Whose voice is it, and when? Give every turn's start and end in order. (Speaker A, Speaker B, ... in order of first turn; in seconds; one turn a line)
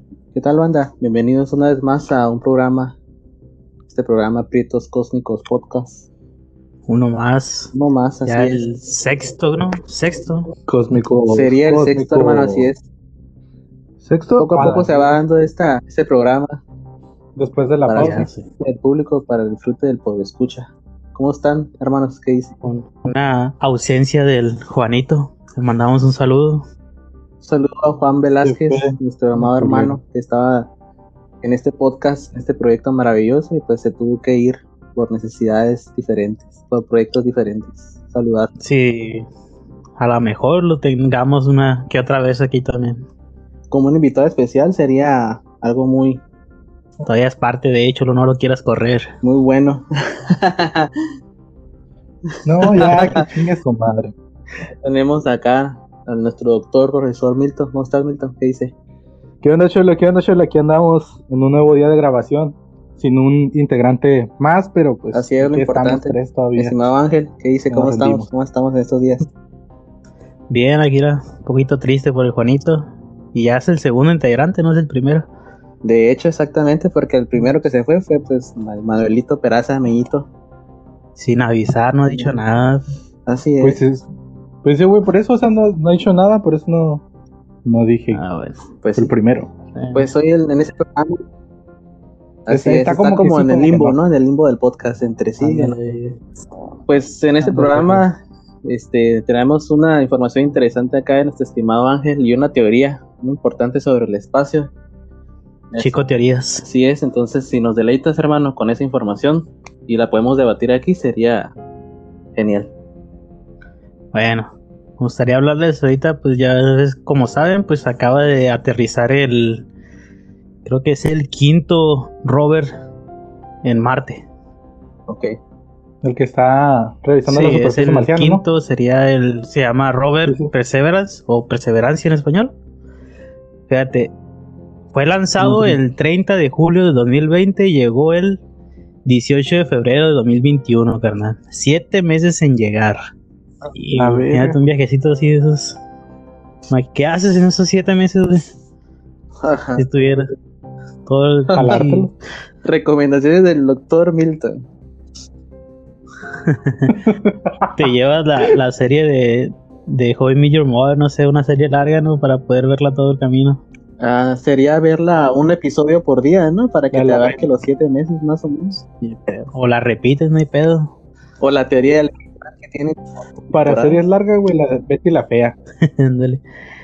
Speaker A: 0.3-3.0
Speaker A: 3.9-6.1
Speaker B: 6.9-7.7
Speaker A: 7.7-8.7
Speaker B: 8.3-10.5
Speaker C: 10.7-12.7
Speaker A: 11.3-12.8
Speaker C: 14.0-15.2
Speaker A: 14.4-16.6
Speaker C: 17.4-18.3
Speaker A: 17.9-22.5
Speaker B: 18.0-18.5
Speaker B: 22.6-26.6
Speaker A: 27.4-30.7
Speaker C: 28.4-30.0
Speaker A: 31.4-38.5
Speaker B: 38.6-39.3
Speaker B: 40.0-43.0
Speaker A: 43.7-46.2
Speaker B: 47.0-49.1
Speaker A: 49.2-50.9
Speaker C: 52.5-54.1
Speaker A: 52.8-53.3
Speaker A: 54.8-58.7
Speaker C: 59.4-66.8
Speaker A: 65.1-69.2
Speaker C: 67.7-68.3
Speaker B: 70.5-75.3
Speaker A: 75.8-80.3
Speaker B: 81.2-82.8
Speaker A: 83.3-83.8
Speaker C: 83.6-84.1
Speaker C: 84.6-87.0
Speaker C: 87.7-88.2
Speaker B: 88.1-88.6
Speaker A: 88.8-89.1
Speaker C: 89.0-89.5
Speaker B: 89.8-90.1
Speaker A: 89.9-91.2
Speaker A: 92.5-95.8
Speaker C: 92.5-94.0
Speaker B: 95.4-96.2
Speaker A: 96.9-104.7
Speaker B: 97.4-98.0
Speaker B: 105.8-106.7
Speaker A: 106.6-111.5
Speaker A: 112.4-112.7
Speaker B: 114.1-119.7
Speaker B: 120.7-122.7
Speaker B: 123.6-124.3
Speaker A: 125.1-125.3
Speaker C: 126.0-128.4
Speaker B: 127.3-132.5
Speaker C: 130.3-130.5
Speaker B: 133.7-134.1
Speaker B: 134.9-138.4
Speaker C: 135.4-135.8
Speaker B: 139.1-143.0
Speaker B: 143.7-145.8
Speaker C: 143.9-144.6
Speaker B: 146.7-148.4
Speaker A: 149.4-149.8
Speaker B: 149.8-150.2
Speaker B: 151.1-152.1
Speaker C: 151.5-152.1
Speaker A: 151.6-151.8
Speaker A: 152.7-154.6
Speaker B: 156.5-157.0
Speaker C: 157.1-157.8
Speaker B: 157.8-163.6
Speaker A: 164.0-169.5
Speaker C: 166.9-167.5
Speaker B: 169.5-170.9
Speaker A: 171.4-173.0
Speaker C: 173.5-175.6
Speaker A: 173.6-174.0
Speaker B: 175.8-176.4